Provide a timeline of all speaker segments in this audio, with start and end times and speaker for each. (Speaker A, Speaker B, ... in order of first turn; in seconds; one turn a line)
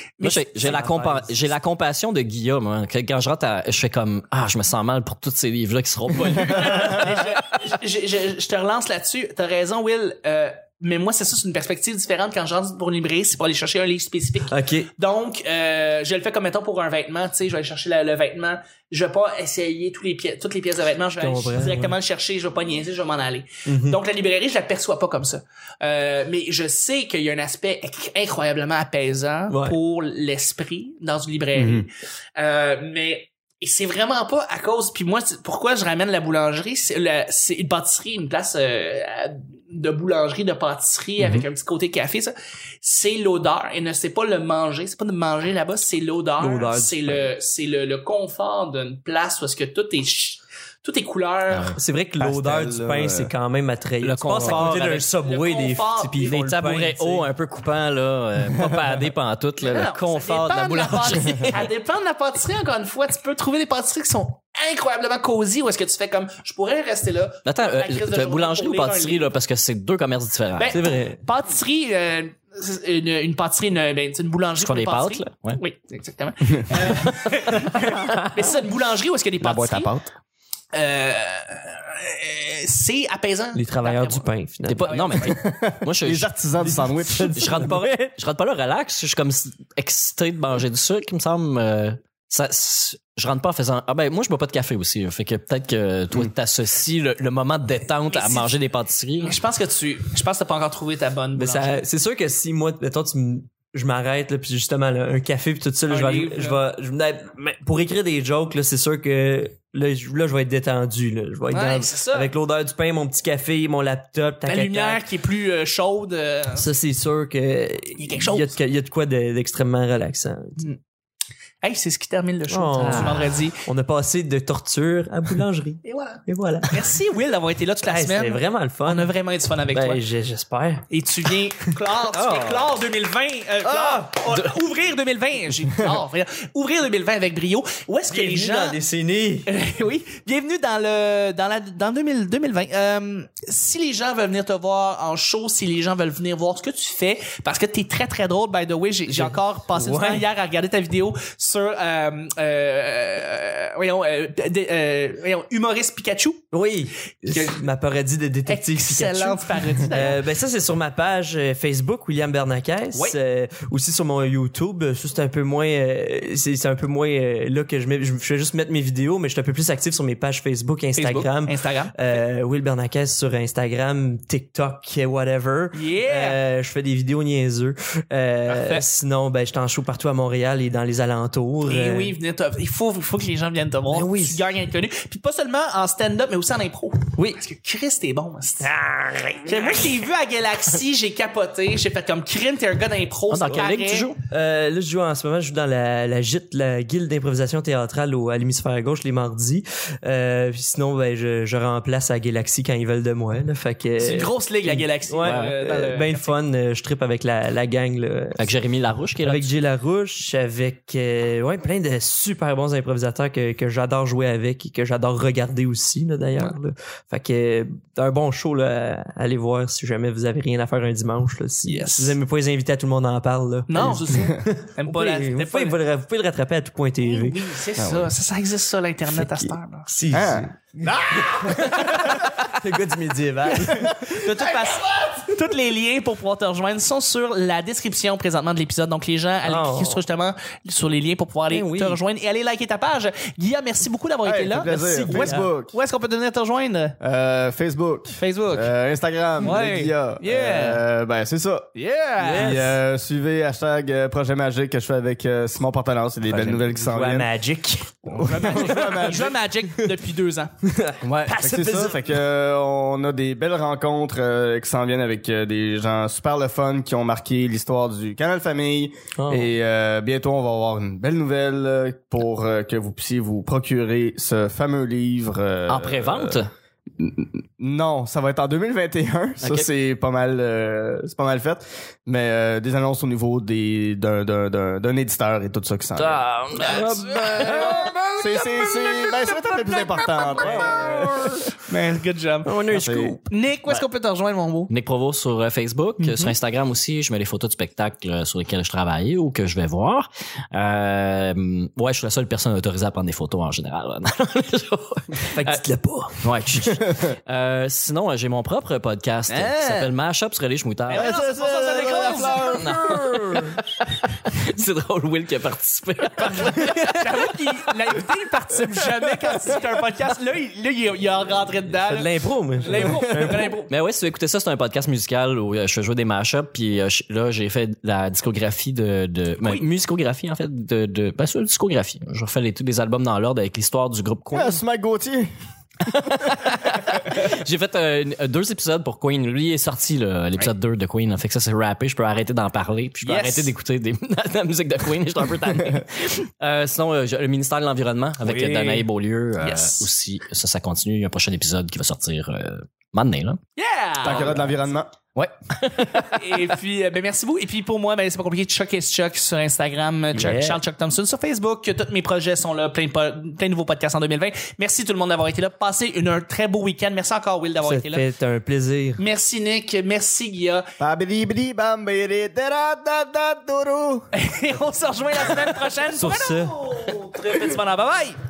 Speaker A: 0.2-0.4
Speaker B: 0.2-6.9
Speaker C: 0.6-1.6
Speaker A: 6.3-42.3
Speaker C: 14.4-14.9
Speaker C: 21.2-21.9
Speaker C: 23.7-24.0
Speaker C: 29.5-29.8
Speaker D: 31.5-31.9
Speaker D: 41.2-41.4
Speaker A: 42.8-51.7
Speaker C: 46.4-47.3
Speaker B: 51.5-51.8
Speaker C: 51.8-57.3
Speaker D: 52.2-53.3
Speaker B: 54.0-55.1
Speaker D: 54.4-54.6
Speaker A: 54.7-56.4
Speaker B: 56.2-61.7
Speaker A: 59.6-69.3
Speaker B: 67.4-70.7
Speaker A: 70.6-79.9
Speaker C: 70.7-71.2
Speaker B: 74.6-75.6
Speaker D: 79.4-80.1
Speaker A: 80.7-84.3
Speaker C: 83.5-85.3
Speaker B: 84.6-86.3
Speaker A: 84.9-85.3
Speaker D: 85.2-87.6
Speaker C: 86.6-88.2
Speaker B: 87.3-99.4
Speaker A: 98.1-98.5
Speaker A: 99.2-101.8
Speaker C: 101.3-115.0
Speaker A: 105.9-106.6
Speaker A: 111.5-112.3
Speaker A: 114.5-116.7
Speaker C: 116.5-120.6
Speaker A: 118.0-118.5
Speaker A: 121.6-123.6
Speaker C: 122.5-126.9
Speaker B: 122.8-123.3
Speaker A: 125.8-130.0
Speaker C: 127.8-129.1
Speaker C: 129.7-131.3
Speaker A: 130.9-138.8
Speaker B: 132.1-132.8
Speaker C: 133.7-134.1
Speaker B: 134.3-134.5
Speaker C: 138.1-139.5
Speaker A: 139.5-156.4
Speaker C: 149.1-150.3
Speaker C: 156.5-182.1
Speaker A: 157.2-157.6
Speaker A: 158.4-160.2
Speaker A: 170.9-171.9
Speaker A: 175.7-176.4
Speaker A: 178.5-178.8
Speaker A: 181.6-188.7
Speaker C: 183.9-184.4
Speaker C: 187.2-187.4
Speaker C: 188.6-190.0
Speaker A: 189.5-194.1
Speaker B: 193.3-194.2
Speaker C: 194.3-208.6
Speaker A: 204.0-206.3
Speaker B: 205.2-205.6
Speaker B: 208.4-209.5
Speaker C: 209.2-227.4
Speaker A: 221.6-222.2
Speaker A: 223.7-225.8
Speaker A: 227.0-229.9
Speaker D: 227.8-228.1
Speaker C: 229.1-234.1
Speaker D: 230.1-230.5
Speaker A: 230.8-232.1
Speaker A: 233.7-246.9
Speaker C: 239.4-240.0
Speaker C: 241.5-242.0
Speaker D: 244.2-245.7
Speaker C: 244.6-245.5
Speaker D: 247.0-251.7
Speaker A: 248.2-248.7
Speaker A: 249.4-250.8
Speaker A: 251.8-252.6
Speaker C: 252.2-252.8
Speaker D: 252.3-257.3
Speaker C: 256.3-259.1
Speaker D: 258.1-259.3
Speaker A: 258.2-260.5
Speaker C: 260.8-262.0
Speaker D: 261.0-276.4
Speaker C: 269.1-269.5
Speaker B: 275.7-276.5
Speaker D: 277.0-286.2
Speaker B: 279.4-279.7
Speaker B: 285.9-287.9
Speaker A: 286.6-287.7
Speaker C: 286.7-291.4
Speaker D: 288.2-291.4
Speaker B: 290.4-290.8
Speaker A: 291.7-292.5
Speaker C: 292.4-293.2
Speaker D: 292.7-293.2
Speaker A: 293.3-294.7
Speaker B: 294.7-305.6
Speaker A: 296.0-296.3
Speaker C: 305.3-306.2
Speaker B: 306.2-311.1
Speaker D: 306.7-307.1
Speaker A: 309.3-309.9
Speaker A: 310.9-312.6
Speaker D: 310.9-313.1
Speaker C: 312.2-313.5
Speaker B: 312.5-317.1
Speaker A: 316.2-323.7
Speaker C: 321.7-323.6
Speaker D: 322.8-323.1
Speaker B: 323.7-334.6
Speaker D: 334.3-335.3
Speaker B: 335.9-353.4
Speaker A: 343.0-343.5
Speaker C: 348.2-348.8
Speaker A: 348.5-348.8
Speaker A: 349.4-349.9
Speaker A: 353.6-354.7
Speaker D: 354.0-354.9
Speaker B: 355.1-356.4
Speaker A: 356.1-368.0
Speaker C: 360.1-360.6
Speaker C: 367.6-369.0
Speaker A: 369.0-370.6
Speaker D: 370.8-374.1
Speaker A: 374.1-378.2
Speaker C: 375.9-376.6